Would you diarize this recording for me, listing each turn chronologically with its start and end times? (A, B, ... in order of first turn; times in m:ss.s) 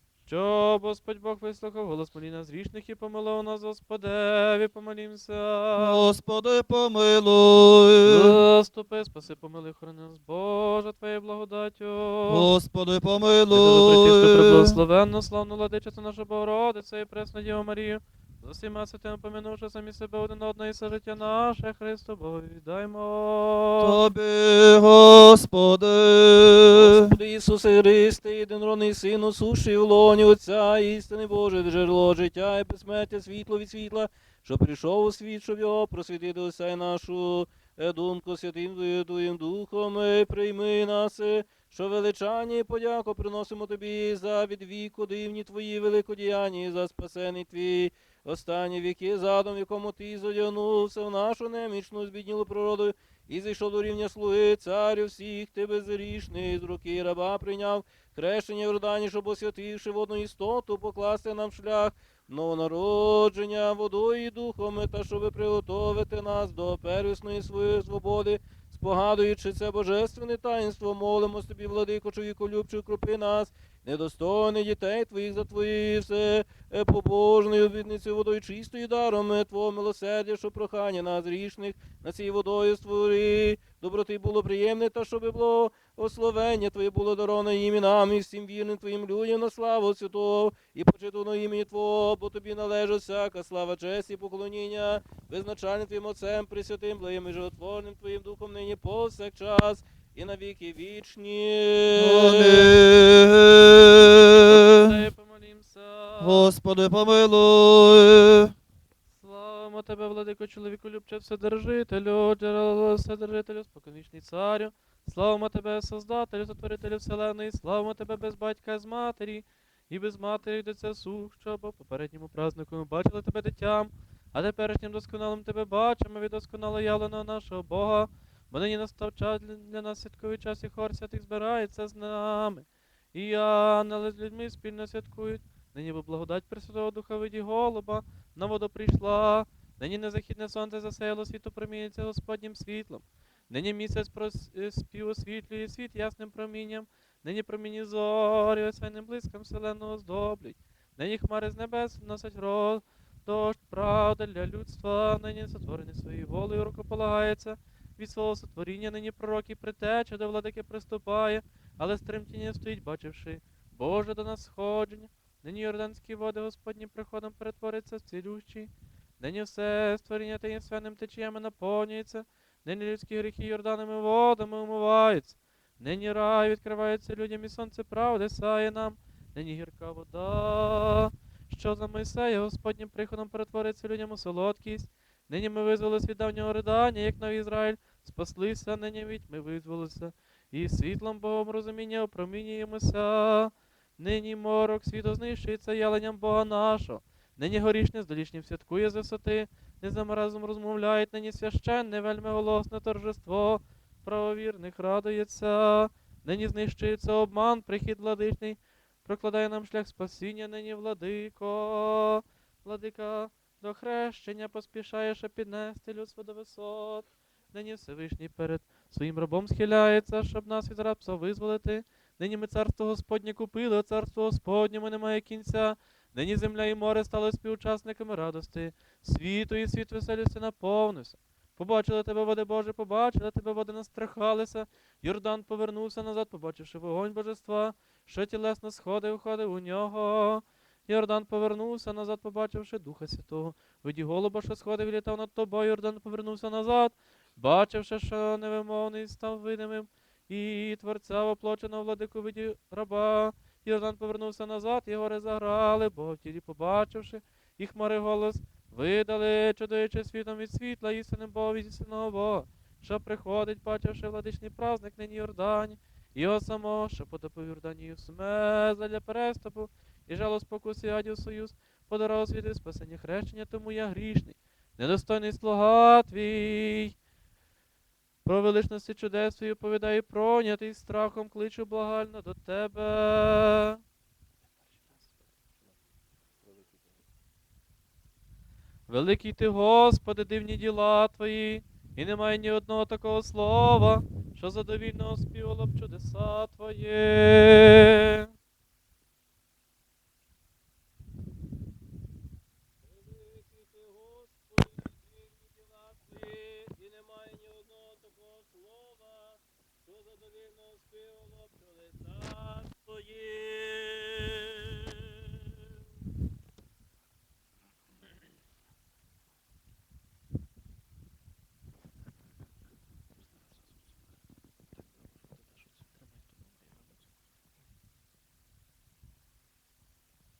0:00.3-0:06.0 A
0:05.8-0:08.4 B
0:08.0-0:12.5 A
0:12.3-0:14.8 B
0:13.5-0:24.0 A
0:23.8-0:27.2 B
0:26.7-1:42.7 C
1:42.0-1:45.0 B
1:44.4-1:46.5 A
1:46.2-1:48.5 B
1:49.2-4:37.0 A
4:38.2-4:43.8 A
4:48.9-4:58.3 A
5:02.8-5:15.7 C
5:25.8-5:27.0 A